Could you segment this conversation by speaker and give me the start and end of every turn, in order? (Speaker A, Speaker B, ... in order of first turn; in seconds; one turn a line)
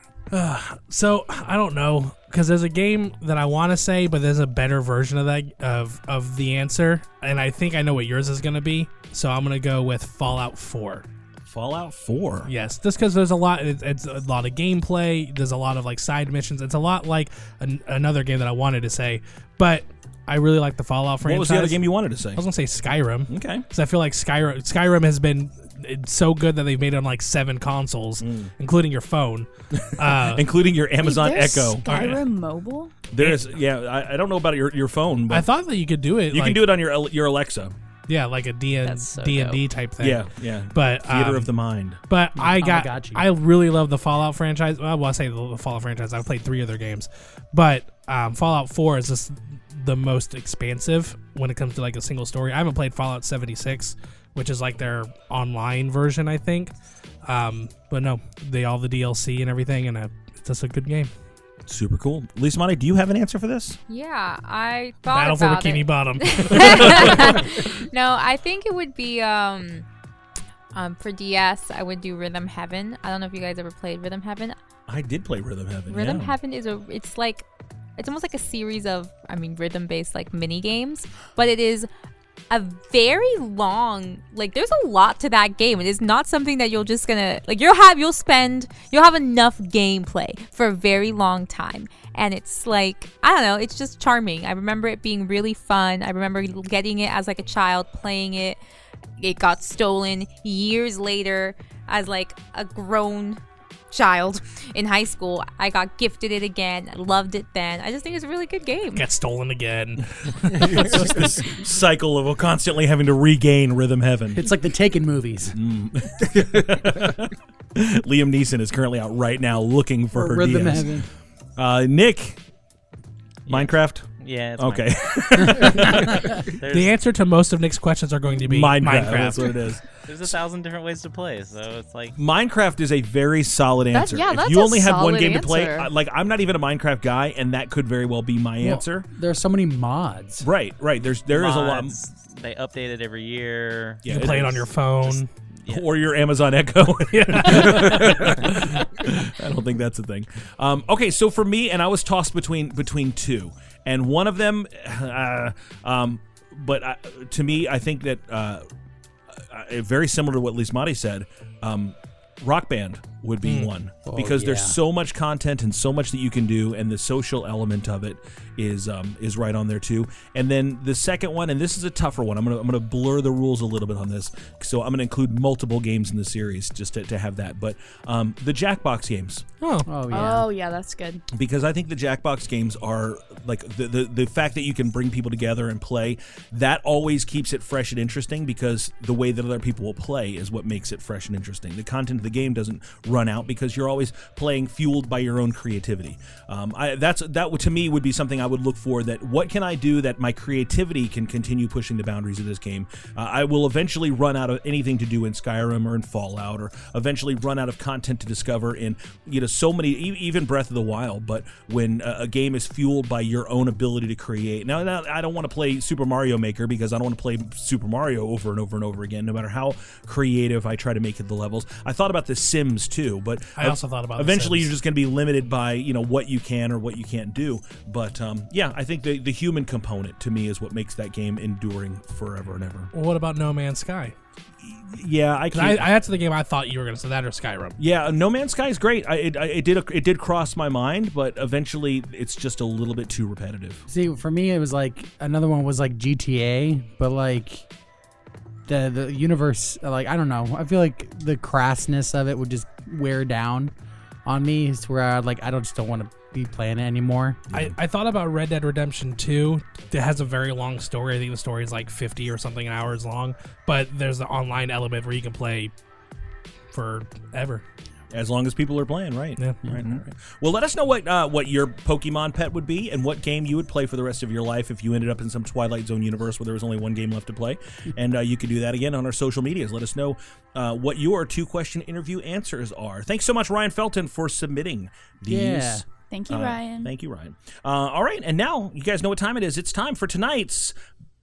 Speaker A: 0.3-11.1
Speaker B: 11.5-12.5
Speaker A: 12.5-30.4
Speaker B: 21.2-22.4
Speaker B: 23.3-23.6
Speaker B: 28.2-28.5
Speaker B: 29.7-31.8
Speaker C: 31.0-32.9
Speaker A: 31.9-32.2
Speaker B: 33.1-35.5
Speaker A: 35.3-36.7
Speaker B: 36.3-37.8
Speaker A: 38.1-41.5
Speaker C: 38.8-39.6
Speaker B: 40.0-42.0
Speaker A: 42.1-56.7
Speaker D: 42.4-43.3
Speaker A: 57.2-61.1
Speaker B: 61.7-63.8
Speaker E: 63.9-69.8
Speaker A: 65.1-67.5
Speaker E: 70.7-74.6
Speaker B: 74.9-76.4
Speaker E: 75.9-77.5
Speaker E: 78.0-81.9
Speaker E: 82.5-98.6
Speaker E: 99.2-103.4
Speaker E: 103.9-109.1
Speaker A: 108.9-110.9
Speaker B: 110.6-114.5
Speaker D: 114.4-115.6
Speaker B: 115.5-121.0
Speaker D: 120.1-121.1
Speaker B: 121.6-122.4
Speaker F: 123.5-124.9
Speaker B: 123.5-126.4
Speaker F: 125.7-127.0
Speaker A: 126.7-129.5
Speaker B: 128.5-129.8
Speaker F: 130.1-132.2
Speaker B: 132.2-139.1
Speaker C: 133.9-135.9
Speaker D: 138.6-140.5
Speaker B: 140.4-142.0
Speaker F: 141.3-144.4
Speaker B: 144.0-145.2
Speaker A: 144.1-145.3
Speaker F: 145.6-146.1
Speaker B: 145.7-158.6
Speaker A: 147.1-148.8
Speaker B: 159.4-179.5
Speaker D: 164.1-164.8
Speaker A: 179.6-179.9
Speaker D: 179.9-180.5
Speaker C: 180.1-181.2
Speaker B: 181.3-232.9
Speaker A: 223.6-224.7
Speaker A: 232.9-234.2
Speaker B: 234.6-235.9
Speaker A: 235.5-237.8
Speaker B: 237.8-243.8
Speaker D: 243.9-247.7
Speaker D: 248.7-253.7
Speaker D: 254.3-257.4
Speaker A: 257.5-265.7
Speaker A: 266.7-267.6
Speaker B: 268.1-290.7
Speaker D: 285.3-285.8
Speaker C: 286.1-286.9